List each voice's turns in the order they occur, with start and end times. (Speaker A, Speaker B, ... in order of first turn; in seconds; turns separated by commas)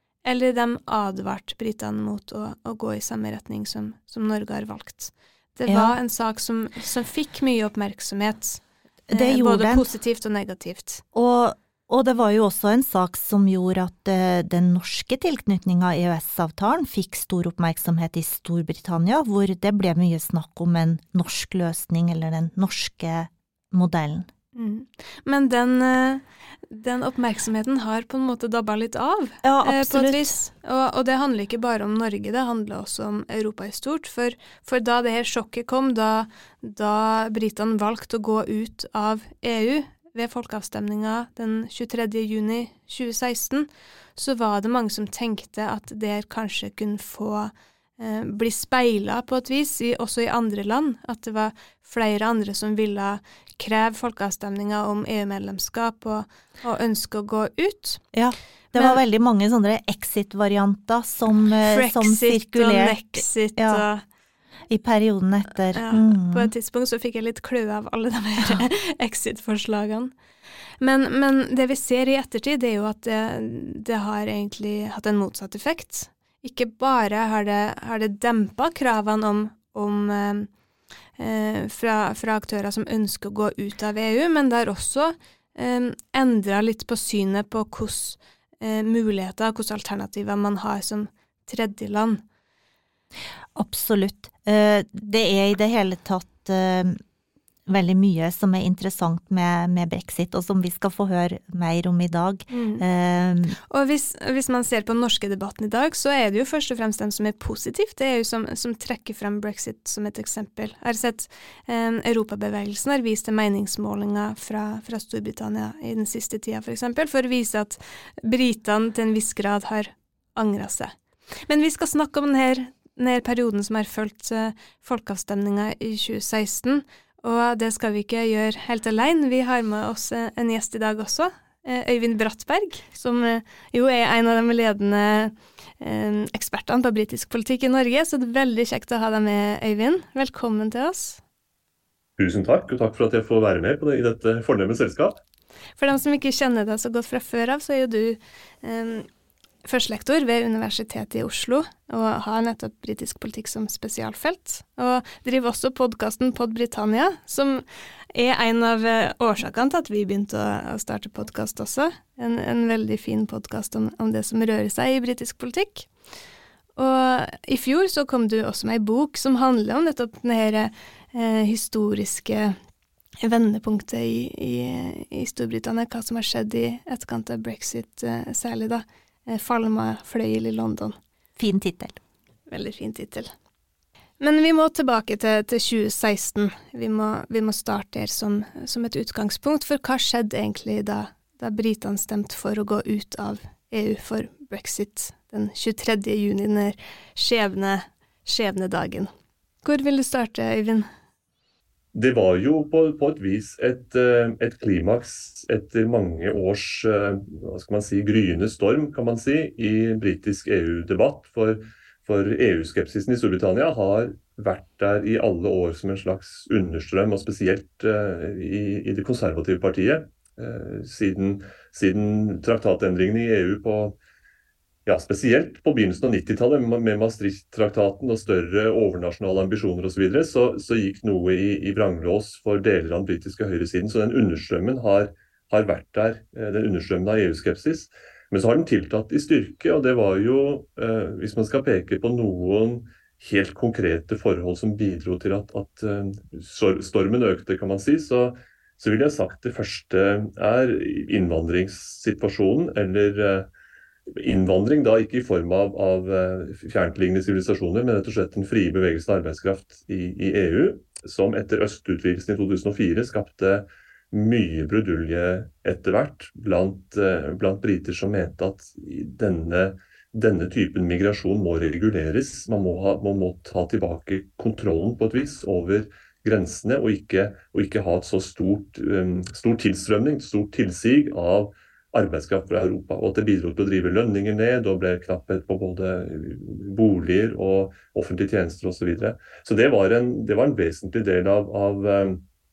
Speaker A: 0.2-11.0, Speaker B: 5.7-6.0, Speaker B: 9.1-9.9, Speaker B: 11.1-24.3, Speaker A: 24.6-58.0, Speaker B: 29.4-30.3, Speaker B: 58.1-63.8, Speaker A: 58.8-59.0, Speaker A: 61.7-64.0, Speaker B: 64.7-66.5, Speaker A: 65.7-70.1, Speaker A: 70.8-80.5, Speaker A: 81.2-92.2, Speaker B: 93.5-97.0, Speaker B: 97.7-103.6, Speaker A: 102.5-102.8, Speaker A: 103.7-120.9, Speaker A: 121.5-141.2, Speaker C: 142.2-145.2, Speaker A: 145.8-149.1, Speaker A: 149.7-165.9, Speaker A: 166.8-172.6, Speaker A: 173.2-181.0, Speaker B: 181.4-182.0, Speaker A: 182.5-183.3, Speaker A: 184.2-199.1, Speaker A: 199.6-200.9, Speaker C: 201.9-224.0, Speaker C: 224.9-253.5, Speaker C: 254.1-292.2